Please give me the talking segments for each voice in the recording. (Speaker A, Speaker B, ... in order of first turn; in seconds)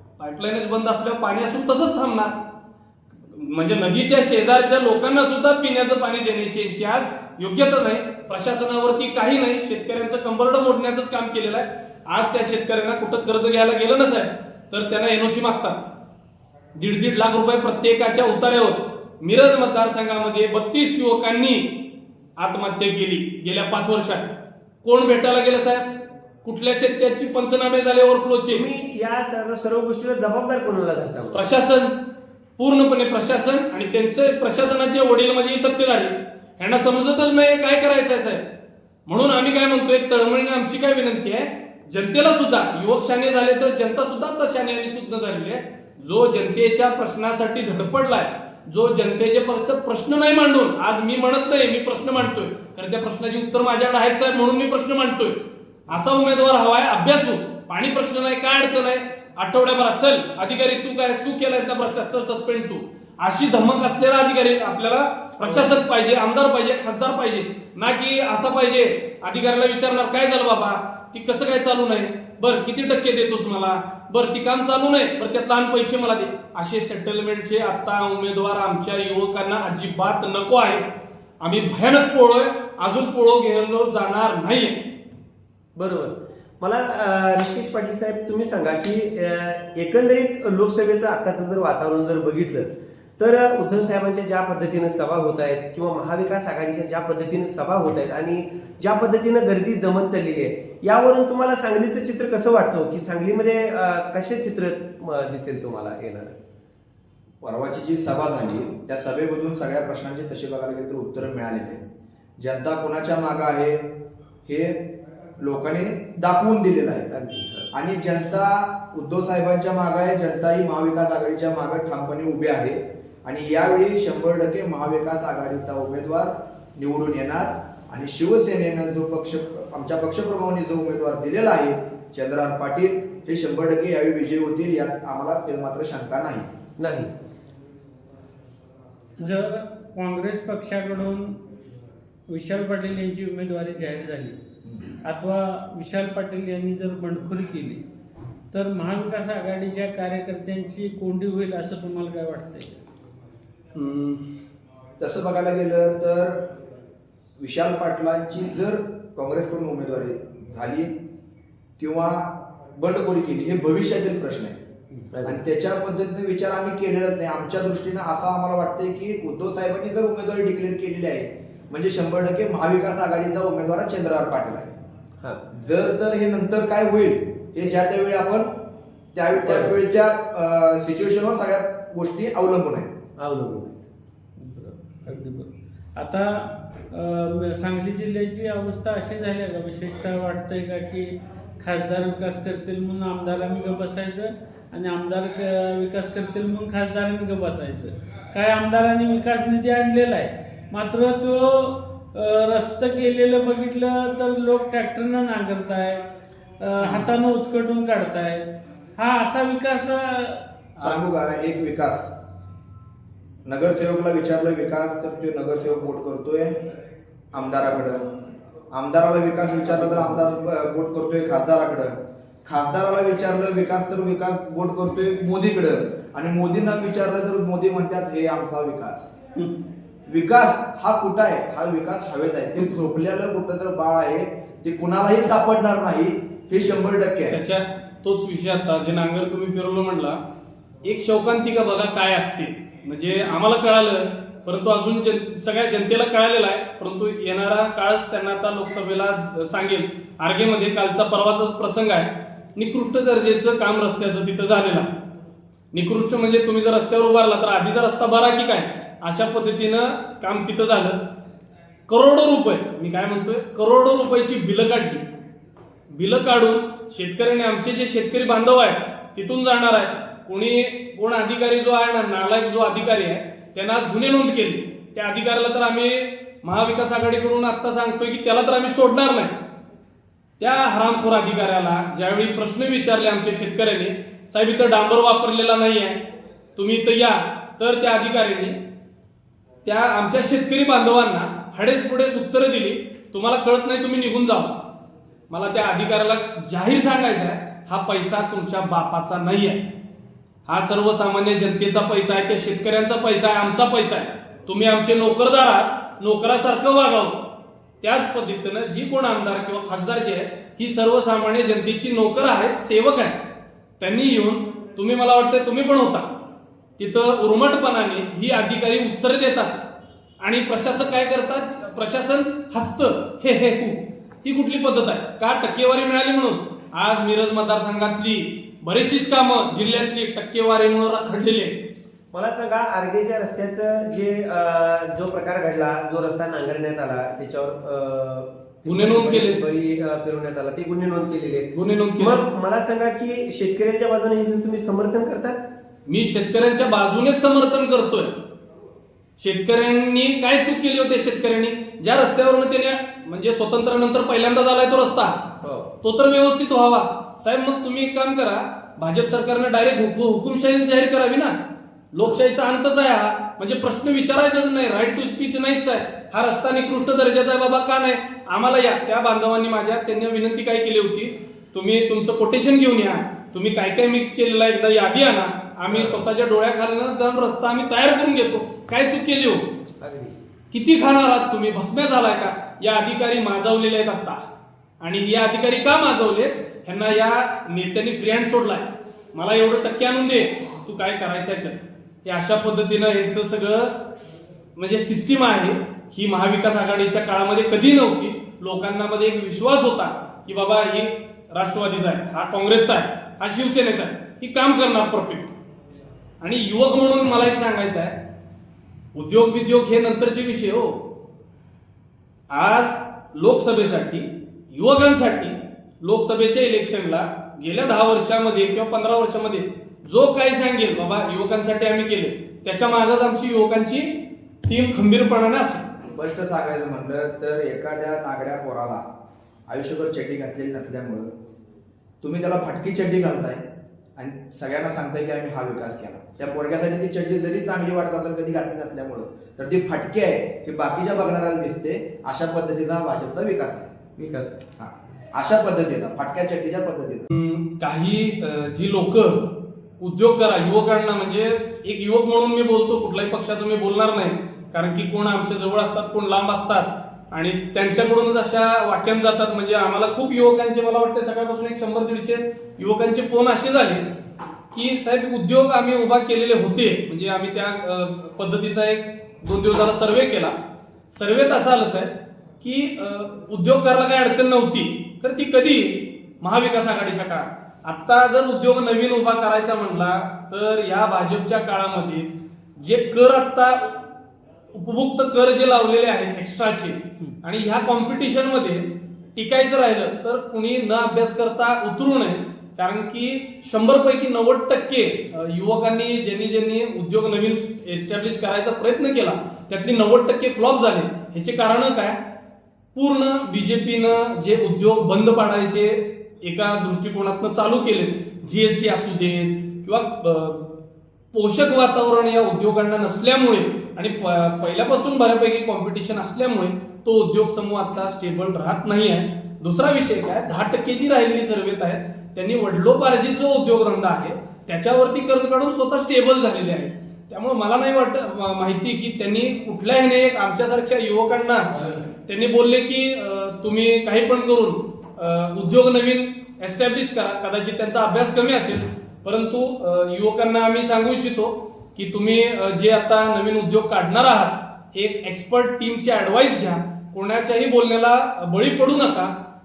Speaker A: 0.2-2.4, 3.1-15.8, 16.8-21.7, 22.4-24.3, 24.8-25.9, 26.4-28.6, 31.3-31.9, 32.6-38.4, 39.1-55.4, 55.9-80.8, 81.4-84.8, 153.8-154.2, 210.8-211.0, 237.3-240.2, 240.8-254.9, 255.7-261.0, 261.9-265.1, 265.9-279.4, 280.4-286.0, 286.6-288.6, 289.6-294.6, 295.3-299.7, 300.5-307.2, 307.8-313.2, 313.8-316.1, 316.8-319.6, 320.2-331.6, 338.6-339.4, 341.5-342.2, 345.9-348.1, 349.2-355.2, 355.8-361.4, 361.9-379.5, 380.5-384.2, 384.8-393.7, 394.6-405.3, 406.2-408.0, 408.9-410.8, 412.3-425.7, 447.1-463.9, 464.5-470.4, 470.9-483.8, 484.5-502.0, 502.8-510.5, 511.1-549.1
Speaker B: 28.5-31.6, 85.8-106.4, 117.1-117.7, 136.8-137.1, 165.1-165.4, 179.4-179.8, 183.2-183.7, 332.1-345.4, 355.4-355.7, 375.7-376.0, 379.8-380.1, 444.0-444.4
Speaker C: 107.4-111.8, 112.4-113.8, 114.5-114.8, 115.4-117.1, 117.7-136.5, 155.0-156.4, 157.4-160.9, 161.8-164.6, 165.2-174.7, 175.5-178.5, 179.1-182.9, 210.8-212.1, 213.5-216.6, 217.3-218.1, 218.7-229.1, 230.1-237.4, 425.9-428.8, 429.5-431.1, 432.0-433.4, 434.0-443.7, 444.6-447.1
Speaker D: 139.1-141.3, 142.3-144.4, 145.1-147.8, 148.5-152.8, 184.4-206.0, 206.6-208.4, 209.0-210.4